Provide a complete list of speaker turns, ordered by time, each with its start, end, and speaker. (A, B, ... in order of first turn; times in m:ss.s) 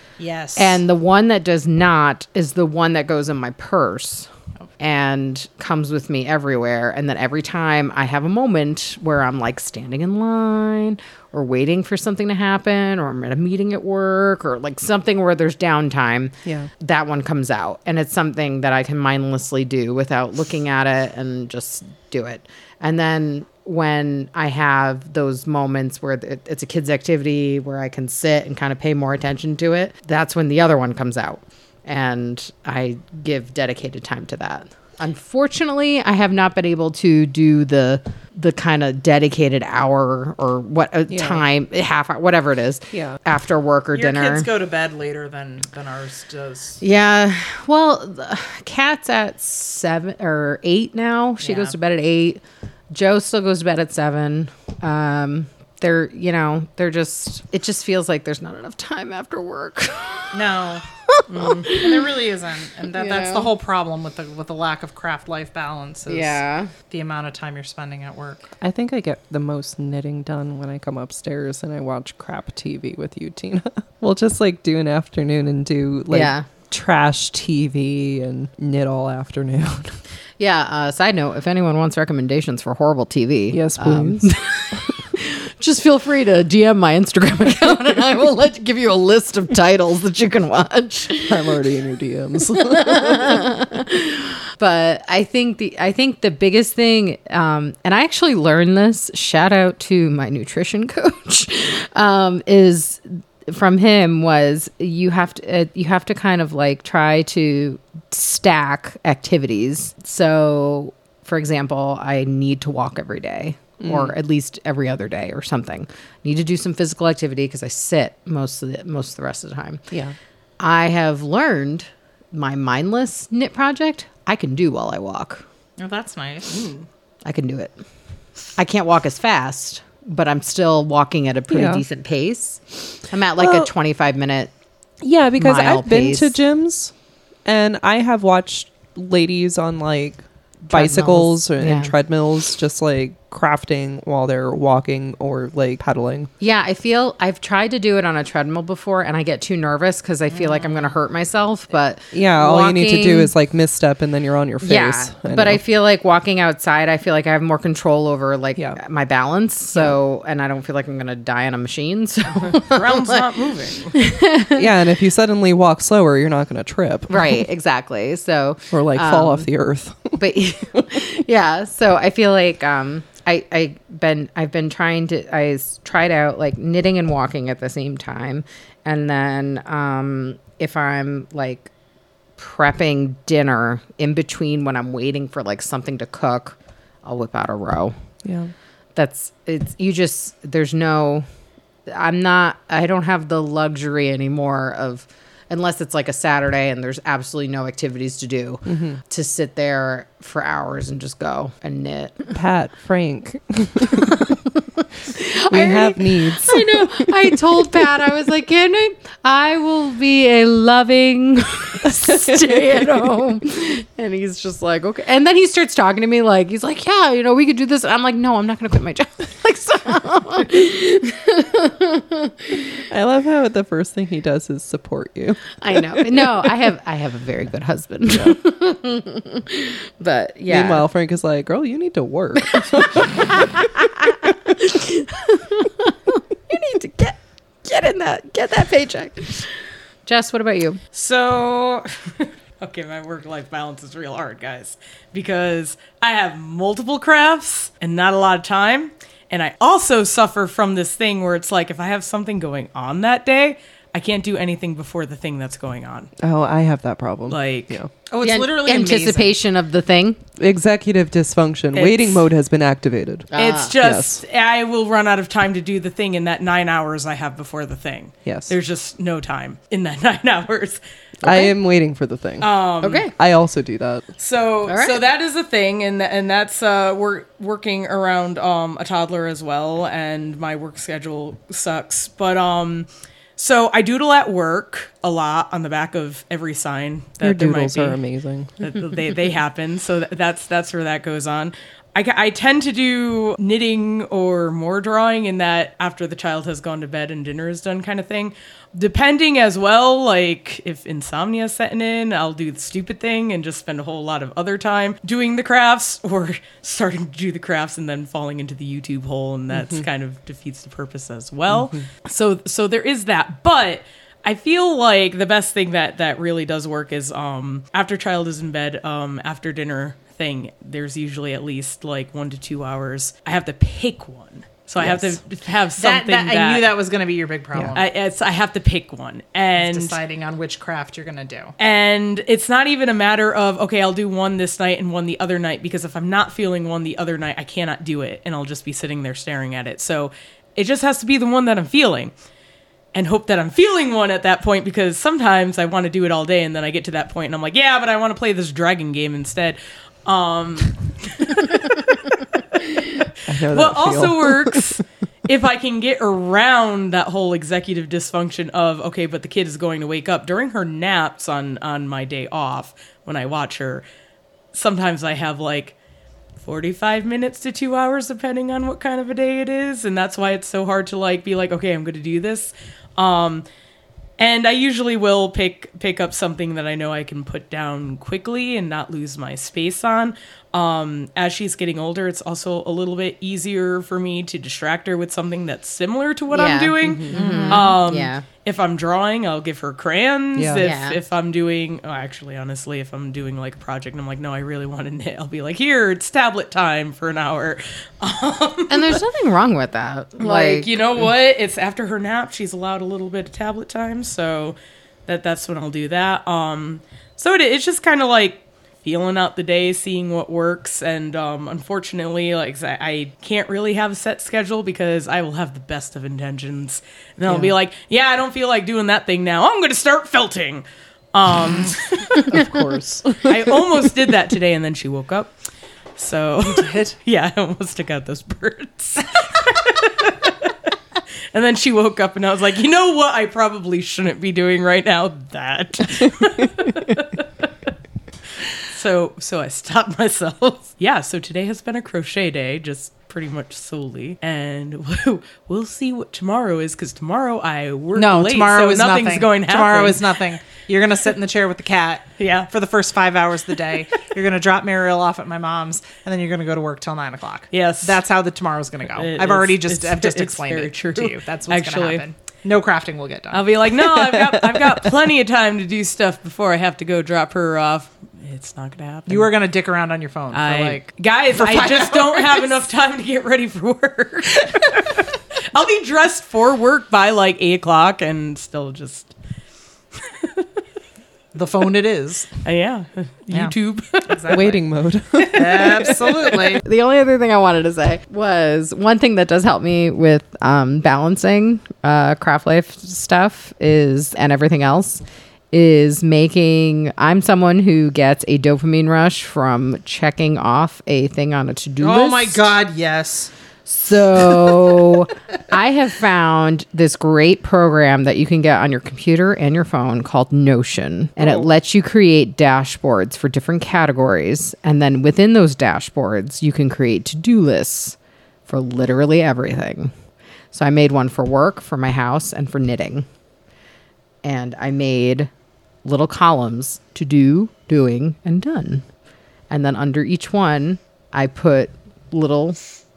0:00.2-0:00.8 A
0:00.6-0:44.5 B
0:16.4-0:16.7 C
0:41.1-0:41.4 C
0:42.9-0:43.2 C
0:43.9-0:46.8 A
0:46.8-1:00.3 B
0:51.4-0:51.8 A
1:00.3-1:08.5 A
1:01.1-1:02.2 B
1:01.3-1:01.6 D
1:02.9-1:03.5 B
1:06.1-1:06.7 B
1:08.6-1:20.0 C
1:16.1-1:16.4 B
1:20.4-1:31.4 B
1:23.5-1:24.3 C
1:31.2-1:33.4 C
1:32.5-1:59.8 B
1:53.8-1:54.1 C
2:00.6-2:05.4 B
2:05.8-2:06.6 A
2:07.2-2:07.7 B
2:08.6-2:14.5 B
2:11.5-2:11.8 C
2:13.4-2:13.7 C
2:15.0-2:16.9 C
2:15.4-2:16.4 B
2:17.4-2:26.3 C
2:20.7-2:21.9 B
2:26.4-2:33.3 B
2:30.3-2:31.0 A
2:32.1-2:35.6 C
2:34.6-2:44.6 B
2:42.3-2:44.0 D
2:44.5-2:47.4 C
2:47.1-2:49.5 B
2:48.7-2:50.2 C
2:50.1-3:01.7 B
2:50.7-2:51.0 C
3:02.4-3:07.9 B
3:08.2-3:08.5 C
3:09.0-3:11.2 B
3:11.9-3:22.3 B
3:18.6-3:19.0 C
3:22.3-3:24.3 C
3:23.9-3:24.5 B
3:25.1-3:42.6 B
3:25.5-3:27.1 C
3:32.0-3:32.5 C
3:42.9-3:46.5 C
3:45.6-3:50.9 B
3:48.1-3:48.4 C
3:50.5-3:53.6 C
3:52.5-3:59.5 B
4:00.1-4:00.8 B
4:00.9-4:16.1 D
4:16.2-4:17.9 C
4:17.3-4:17.8 D
4:18.1-4:19.4 A
4:18.2-4:20.2 B
4:20.4-4:24.2 C
4:21.8-4:22.2 D
4:23.3-4:23.7 B
4:23.4-4:30.8 D
4:28.2-4:28.6 C
4:31.2-4:32.6 C
4:32.4-4:33.1 D
4:32.8-4:33.1 B
4:33.1-4:34.1 C
4:34.2-4:48.0 D
4:34.6-4:35.0 B
4:47.2-4:48.6 C
4:48.6-5:26.7 D
5:24.8-5:25.1 C
5:25.8-5:27.9 A
5:27.7-5:30.0 D
5:29.6-5:31.6 A
5:31.6-5:42.1 D
5:42.9-5:52.6 D
5:53.2-5:54.8 C
5:53.5-6:03.8 D
6:04.5-6:05.8 D
6:06.4-6:13.4 D
6:14.2-6:39.0 D
6:26.3-6:28.2 B
6:26.8-6:27.5 C
6:27.1-6:27.8 A
6:30.4-6:30.7 C
6:30.6-6:31.0 B
6:38.7-6:41.1 B
6:40.2-7:02.4 D
7:02.2-7:03.8 C
7:03.2-7:05.3 D
7:06.0-7:10.7 D
7:06.4-7:06.9 A
7:11.3-7:17.7 D
7:18.6-7:30.1 D
7:27.9-7:43.4 A
7:32.2-7:32.5 D
7:37.5-7:38.0 D
7:39.0-7:42.0 D
7:43.3-7:49.3 D
7:43.9-7:44.8 C
7:49.1-7:52.5 A
7:50.3-7:59.1 D
8:00.0-8:00.5 D
8:01.3-8:02.3 A
8:02.4-8:04.4 D
8:04.1-8:04.6 A
8:04.3-8:05.9 C
8:05.2-8:06.6 A
8:06.3-8:22.5 B
8:21.8-8:23.3 A
8:23.7-8:38.0 B
8:24.1-8:25.0 A
8:31.2-8:31.5 A
8:38.5-8:39.9 B
8:40.5-8:43.0 B
8:44.2-8:45.3 B
8:45.8-8:48.8 B
8:49.5-8:52.6 B